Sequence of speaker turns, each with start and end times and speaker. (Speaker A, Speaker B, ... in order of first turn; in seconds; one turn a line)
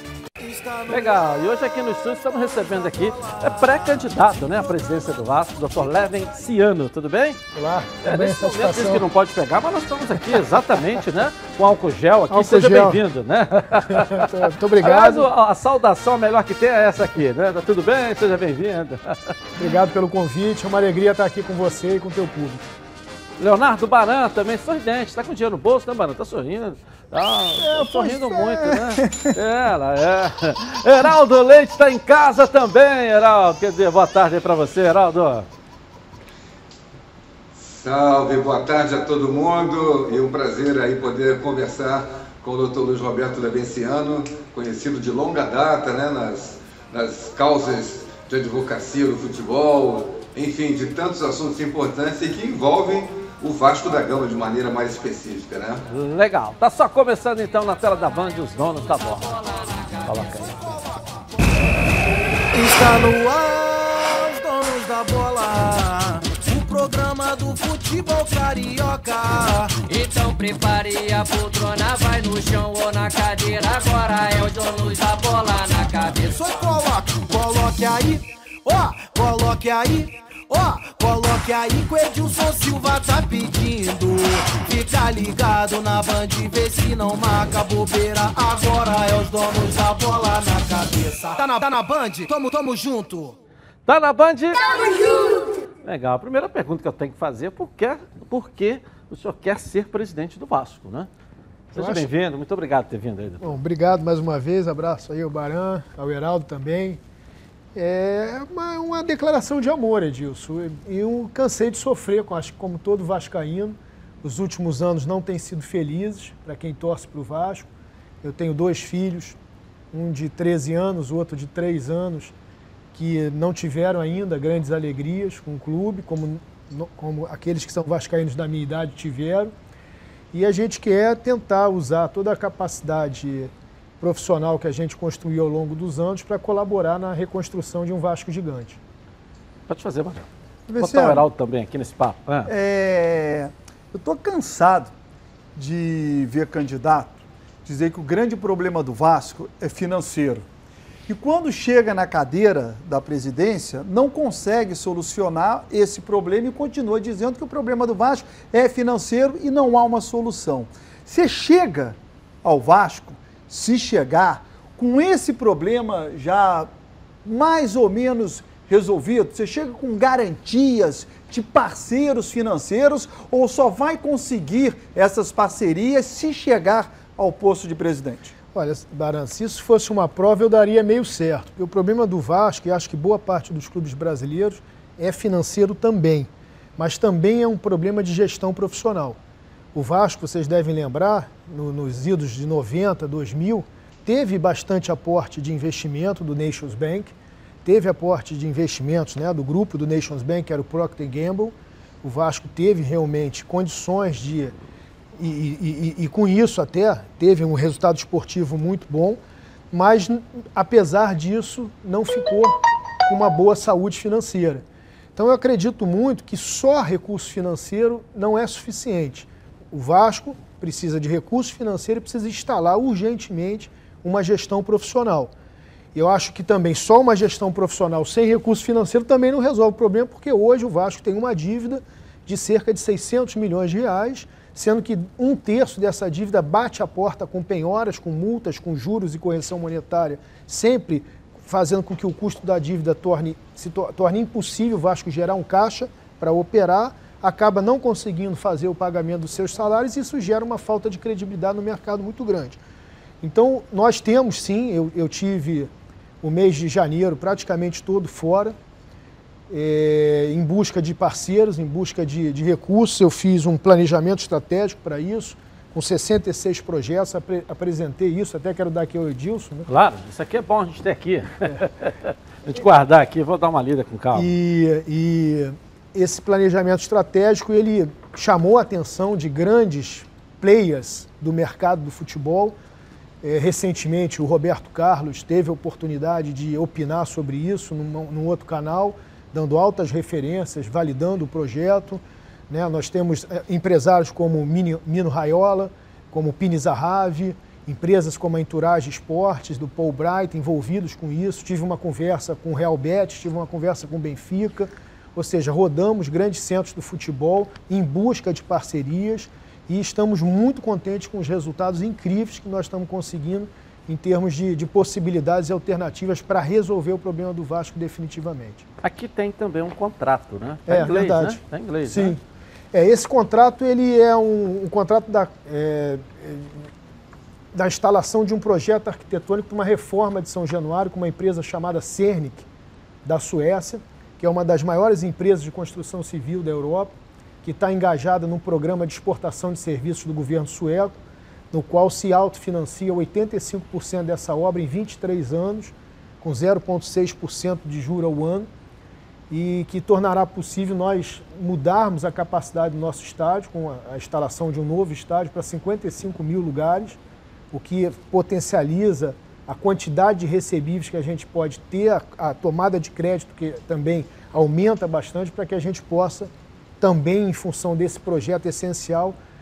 Speaker A: 0.4-1.2
Speaker B: 0.9-7.4
Speaker A: 2.5-4.2
Speaker C: 7.5-9.0
Speaker B: 8.0-19.4
Speaker C: 12.3-13.0
Speaker C: 13.7-15.3
Speaker C: 19.6-22.6
Speaker B: 23.4-35.5
Speaker C: 27.6-28.4
Speaker D: 37.5-55.8
Speaker B: 55.9-59.4
Speaker E: 58.9-60.5
Speaker B: 60.0-60.7
Speaker A: 62.5-69.8
Speaker E: 69.9-76.4
Speaker A: 76.3-93.4
Speaker B: 93.8-95.2
Speaker B: 95.8-101.1
Speaker B: 101.7-103.5
Speaker C: 101.8-102.1
Speaker C: 103.4-107.0
Speaker C: 107.7-117.7
Speaker C: 118.2-119.4
Speaker C: 119.9-122.3
Speaker C: 122.9-129.5
Speaker C: 130.3-138.8
Speaker B: 139.7-140.3
Speaker C: 140.7-141.2
Speaker B: 140.8-142.5
Speaker F: 142.5-144.9
Speaker F: 145.5-150.5
Speaker F: 151.1-166.7
Speaker F: 167.2-178.3
Speaker C: 178.5-189.2
Speaker C: 189.7-197.1
Speaker C: 197.6-204.5
Speaker C: 205.2-209.2
Speaker C: 209.7-225.3
Speaker C: 225.9-252.6
Speaker C: 253.2-258.6
Speaker C: 259.5-269.7
Speaker B: 269.7-274.3
Speaker C: 274.1-282.6
Speaker C: 283.2-318.6
Speaker B: 318.8-322.2
Speaker C: 320.7-322.2
Speaker C: 322.7-326.7
Speaker C: 327.5-332.5
Speaker C: 333.0-341.0
Speaker C: 341.5-348.5
Speaker C: 349.3-357.0
Speaker C: 357.5-369.2